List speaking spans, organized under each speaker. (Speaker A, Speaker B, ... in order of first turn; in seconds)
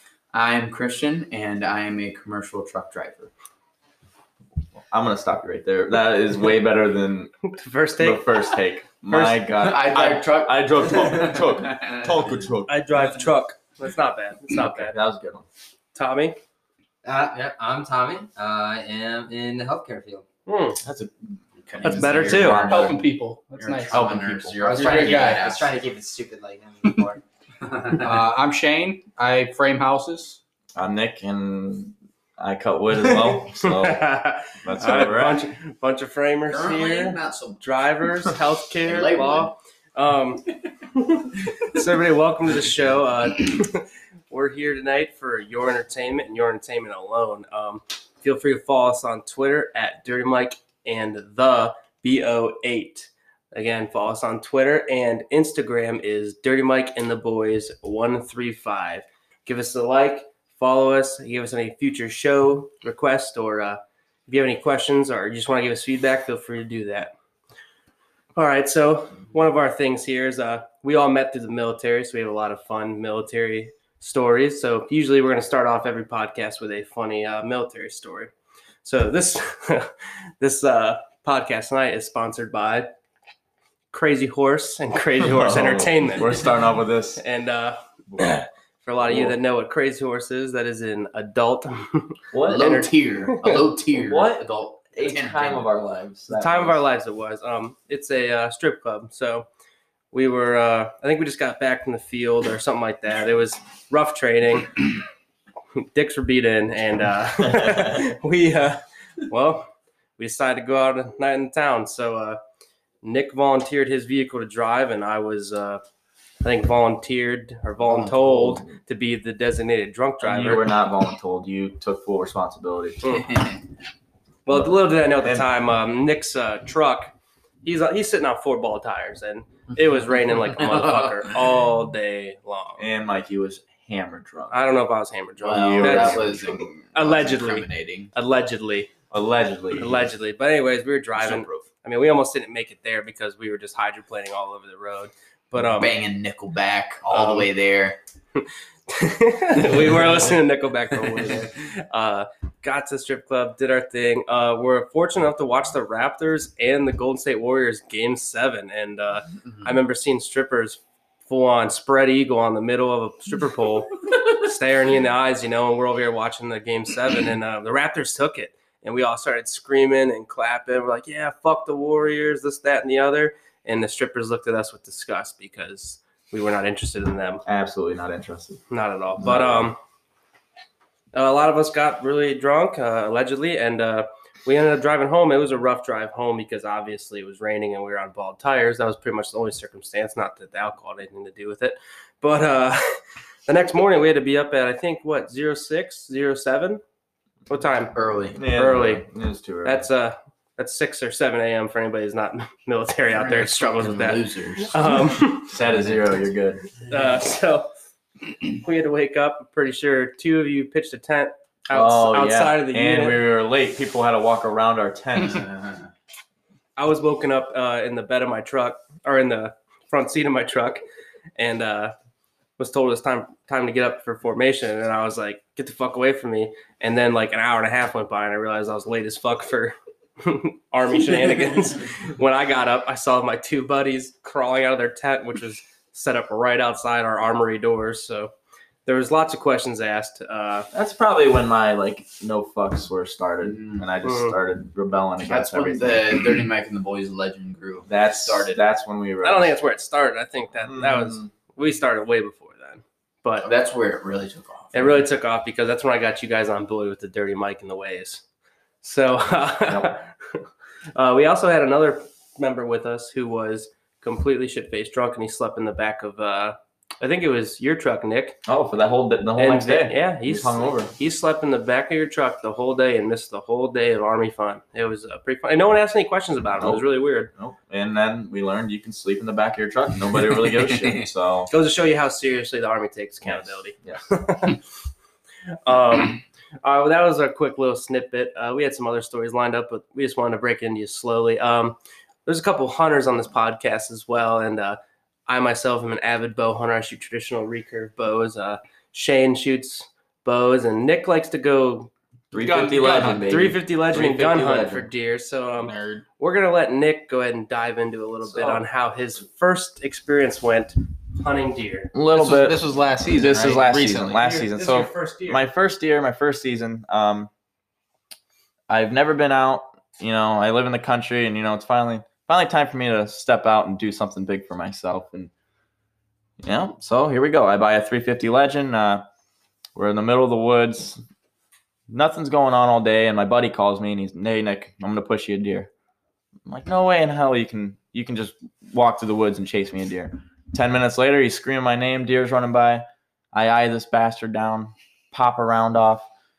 Speaker A: 0.3-3.3, 9.5-12.3, 21.6-25.7, 36.5-37.6, 38.9-39.5, 92.5-95.7, 123.1-123.6, 135.4-138.1, 141.2-141.6, 145.8-148.0, 197.9-198.4, 203.1-205.1, 215.2-215.9, 243.4-243.8, 245.3-248.5, 253.4-255.0, 280.5-281.0
Speaker B: 4.9-7.3, 8.0-12.8, 14.5-15.5, 20.8-21.1, 22.2-23.0, 23.9-24.6, 30.8-34.0, 34.6-35.5, 85.2-87.2, 89.0-89.4, 92.3-92.7, 93.9-96.8, 107.6-107.9, 117.9-118.7, 120.2-123.0, 124.5-125.5, 132.8-134.6, 135.4-136.6, 139.1-140.1, 177.5-178.6, 179.2-179.7, 198.3-199.9, 205.5-206.7, 211.7-215.5, 240.7-246.2, 247.9-249.5, 250.7-251.3, 259.7-259.9, 268.5-270.9, 276.6-281.5, 283.2-284.0, 302.3-304.9, 308.2-308.6, 311.9-317.3, 318.7-325.3, 326.4-329.1, 329.8-331.0, 331.9-335.7, 336.5-346.1
Speaker C: 7.5-8.6, 12.7-14.9, 15.9-16.4, 20.5-20.8, 21.8-22.7, 33.3-67.1, 68.3-78.3, 78.8-82.9, 83.9-86.4, 87.2-93.6, 96.3-99.5, 100.1-104.8, 105.8-112.4, 113.0-115.8, 116.4-120.7, 124.5-132.9, 134.5-138.9, 139.8-145.9, 147.1-147.5, 148.4-177.4, 178.7-179.8, 181.1-196.8, 197.5-199.1, 199.6-205.5, 206.8-207.7, 208.4-213.2, 216.8-220.8, 221.4-221.9, 222.6-238.3, 238.9-240.7, 244.0-244.4, 249.2-253.5, 254.7-258.2, 258.8-268.4, 269.4-277.3, 281.5-284.6, 285.6-301.9, 302.8-311.9, 314.2-315.4
Speaker D: 17.0-20.2, 24.6-27.2
Speaker E: 22.5-24.2, 24.7-25.5, 28.0-30.4, 302.4-303.3, 305.6-306.1, 312.1-314.2